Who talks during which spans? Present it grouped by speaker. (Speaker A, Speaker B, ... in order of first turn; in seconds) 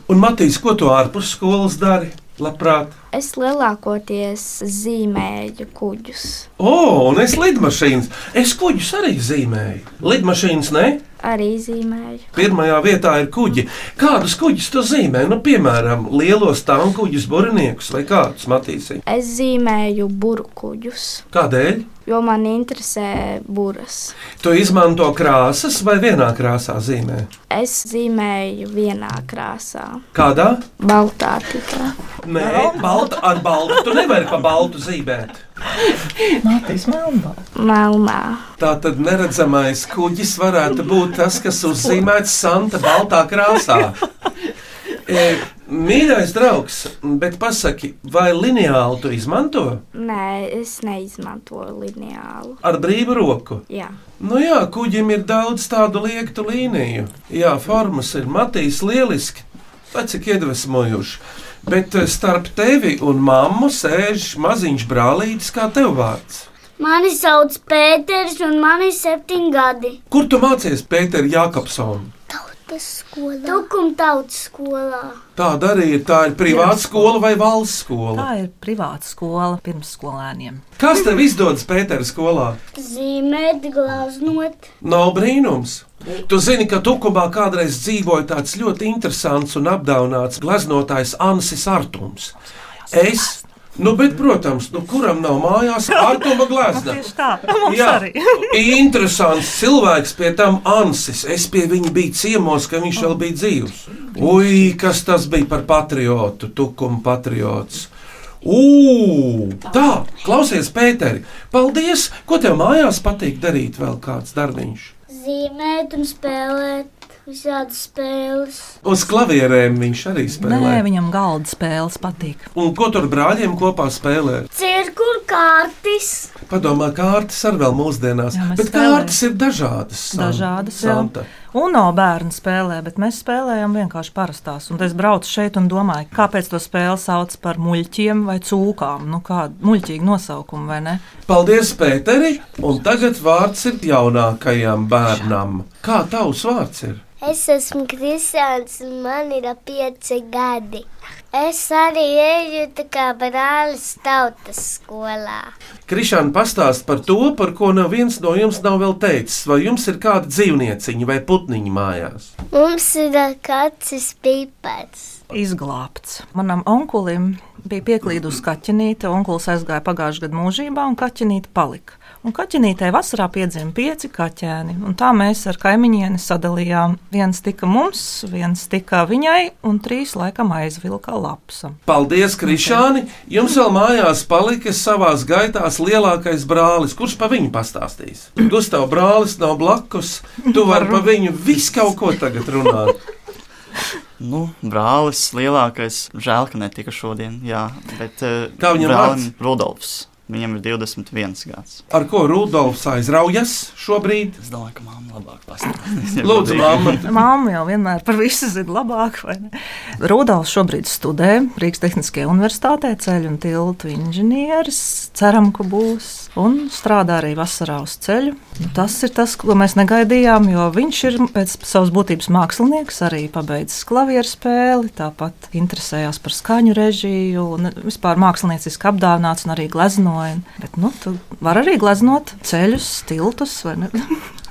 Speaker A: 0.1-3.0, 6.6-11.0, 12.3-19.0, 21.3-21.9, 24.4-27.3, 30.1-30.6, 32.2-35.4, 38.6-44.0, 45.1-49.8, 52.6-53.6, 54.2-66.5, 70.1-72.1, 75.4-78.3, 80.8-82.6, 84.8-92.3, 92.9-97.1, 97.7-107.9, 108.4-114.9, 118.8-120.8, 122.5-124.5, 126.5-131.3, 141.3-147.0, 155.9-162.3, 181.9-192.9, 198.6-199.3, 201.9-204.4, 206.2-207.1
Speaker B: 3.1-6.5, 11.2-12.3, 19.1-21.2, 22.1-24.2, 27.5-30.0, 30.8-31.9, 37.5-38.4, 50.0-52.6, 53.7-54.0
Speaker C: 32.4-33.9, 35.8-37.5, 76.5-77.2, 78.2-80.6, 92.9-93.4, 95.9-98.6, 120.4-122.5, 128.3-129.2, 130.1-141.0, 165.3-181.8, 182.4-182.8, 190.4-191.9, 206.9-234.2
Speaker D: 66.8-70.0, 72.3-75.2, 82.7-84.7, 115.1-118.7, 124.5-126.3, 147.2-155.5, 162.5-165.2
Speaker E: 194.2-201.8, 204.4-207.0